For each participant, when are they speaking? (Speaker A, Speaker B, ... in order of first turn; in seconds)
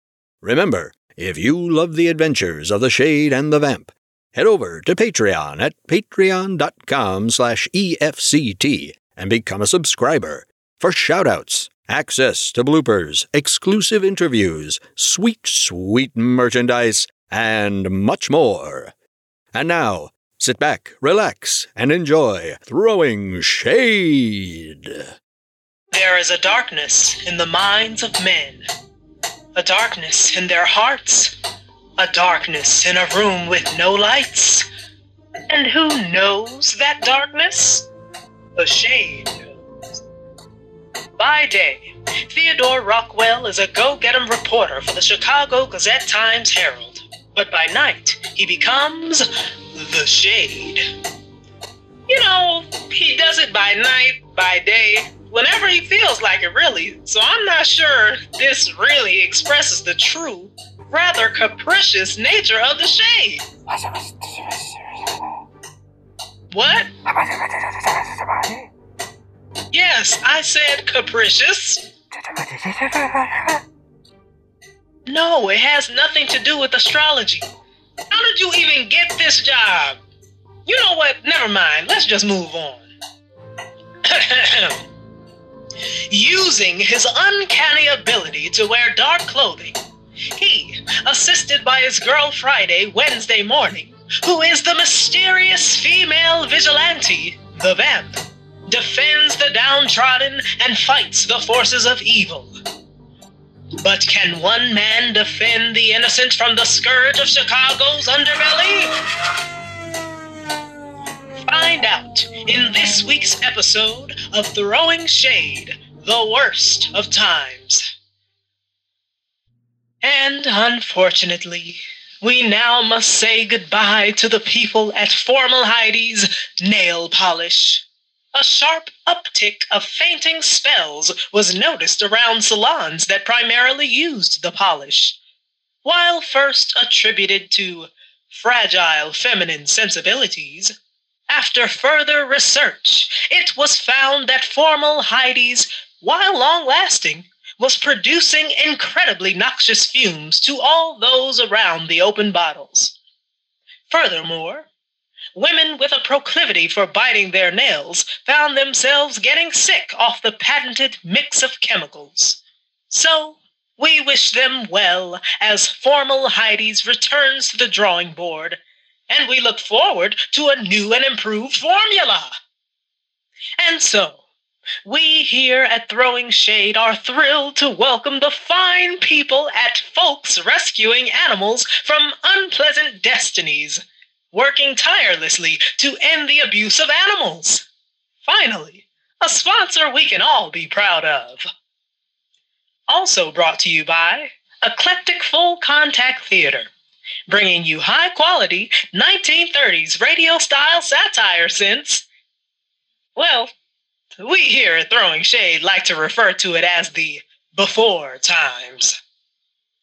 Speaker A: 0.4-18.9, 19.5-25.1, 63.7-64.8, 67.1-68.7, 72.3-73.6
Speaker B: 25.9-28.6, 29.5-31.3, 32.0-34.7, 35.5-37.9, 38.5-39.5, 41.2-50.8, 52.1-63.5, 66.5-66.9, 69.7-71.8, 75.0-77.5, 78.1-80.0, 80.7-82.8, 84.0-84.8, 86.1-89.8, 90.3-102.5, 103.8-108.9, 111.4-117.8, 120.0-135.2, 135.8-140.7, 141.3-152.9, 153.9-154.7, 155.3-172.3, 173.6-174.2, 174.8-187.6, 188.2-191.4, 192.9-196.7, 197.3-202.0, 203.2-203.5, 204.2-209.0